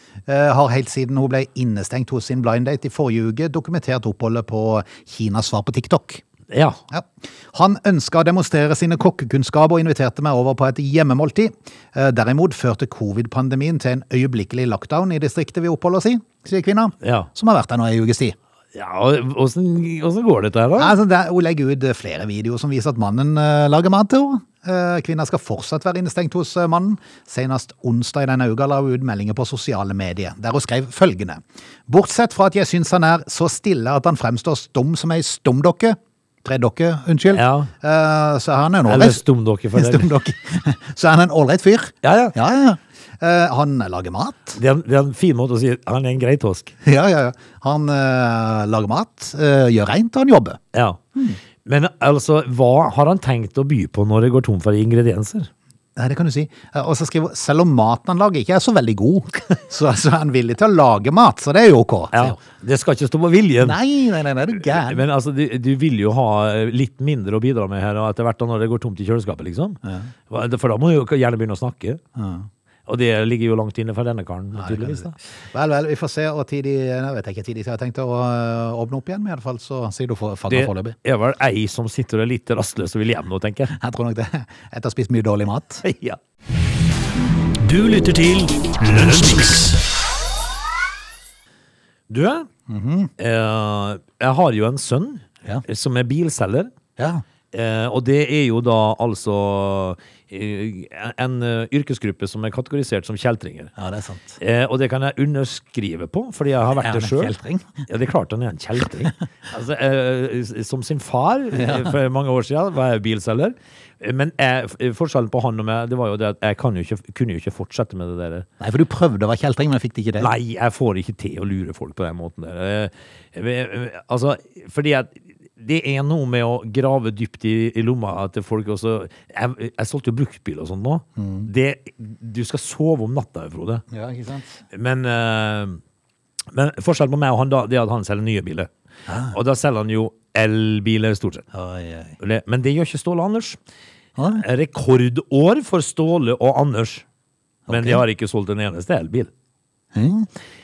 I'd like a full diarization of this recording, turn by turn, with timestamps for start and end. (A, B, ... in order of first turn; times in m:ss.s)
0:00.3-0:06.2 A
0:06.5-0:06.8 B
0:06.9-0:18.4 A
0:17.0-0:17.3 B
0:18.7-0:20.9 B
0:20.8-0:39.2 A
0:37.3-0:37.7 B
0:38.8-0:40.1 B
0:39.7-0:44.6 A
0:42.0-0:42.3 B
0:44.6-0:46.7 B
0:46.8-0:50.6 A
0:50.7-0:51.0 B
0:51.6-0:55.5 B
0:56.0-1:02.4 A
1:02.1-1:03.8 B
1:03.6-1:05.0 A
1:04.6-1:12.0 B
1:09.8-1:10.1 A
1:12.2-1:12.5 A
1:12.9-1:15.2 B
1:14.5-1:21.0 A
1:20.5-1:23.7 B
1:23.7-1:25.8 A
1:25.8-1:26.2 B
1:27.6-1:29.8 C
1:32.1-1:32.5 B
1:32.7-1:33.1 A
1:33.2-1:36.7 B
1:37.0-1:37.2 A
1:37.5-1:43.7 B
1:43.8-1:44.4 A
1:44.4-1:47.3 B
1:46.8-1:47.8 A
1:47.9-1:58.5 B
1:51.6-1:51.9 A
1:58.6-2:00.3 A
2:00.2-2:13.8 B
2:11.2-2:11.5 A
2:13.9-2:14.6 A
2:14.7-2:15.8 B
2:16.5-2:18.7 B
2:19.1-2:19.3 A
2:19.3-2:21.5 B
2:21.5-2:22.2 A
2:22.2-2:23.6 B
2:24.2-2:24.4 A
2:24.3-2:27.0 B
2:27.7-2:28.0 A
2:27.7-2:29.3 B
2:29.9-2:30.3 A